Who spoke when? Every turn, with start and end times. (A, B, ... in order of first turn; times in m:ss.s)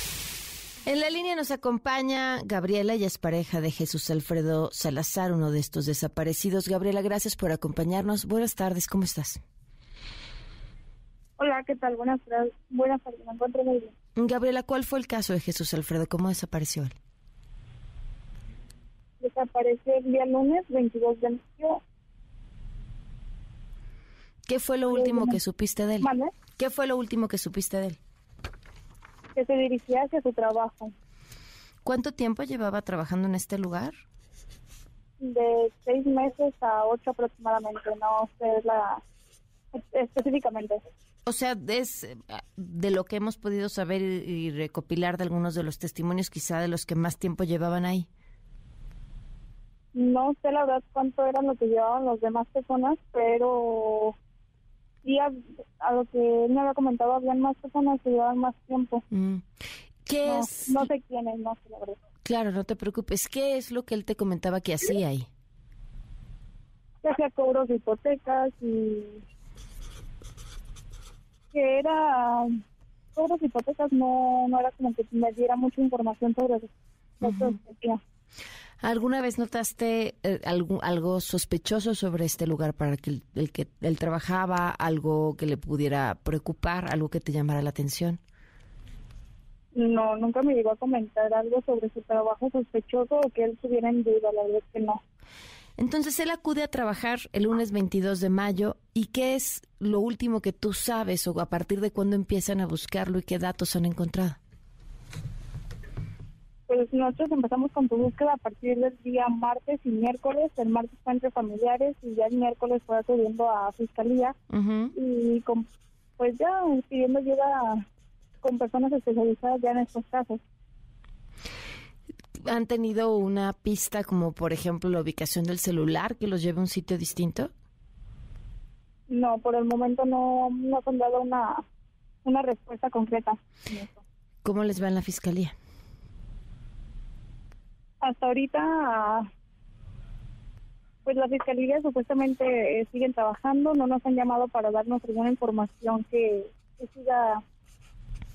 0:00.9-0:09.4 A
0:11.4-0:13.9 B
0:14.2-0:17.0 A
0:19.2-0:21.8 B
0:24.5-0:28.0 A
0:24.9-0:25.4 B
0:26.0-0:26.3 B
0:29.4-0:31.0 B
0:31.8-0:33.9 A
0:35.2-0:39.0 B
0:39.7-0:40.8 B
0:41.3-0:48.1 A
0:49.9-0:54.2 B
0:55.0-0:59.0 B
0:59.1-0:59.5 A
1:00.0-1:00.9 A
1:00.2-1:02.0 B
1:02.2-1:05.3 A
1:07.0-1:09.2 B
1:11.5-1:12.5 B
1:13.2-1:18.0 B
1:17.2-1:17.6 A
1:18.8-1:28.2 A
1:29.7-1:35.0 B
1:35.8-1:44.4 A
1:46.7-1:54.4 B
1:54.5-1:54.9 A
1:54.9-1:55.7 B
1:56.2-1:57.9 B
1:58.4-2:00.4 B
2:02.4-2:07.5 A
2:09.1-2:11.7 B
2:12.2-2:14.0 B
2:14.4-2:15.5 A
2:18.0-2:19.3 B
2:21.0-2:27.4 B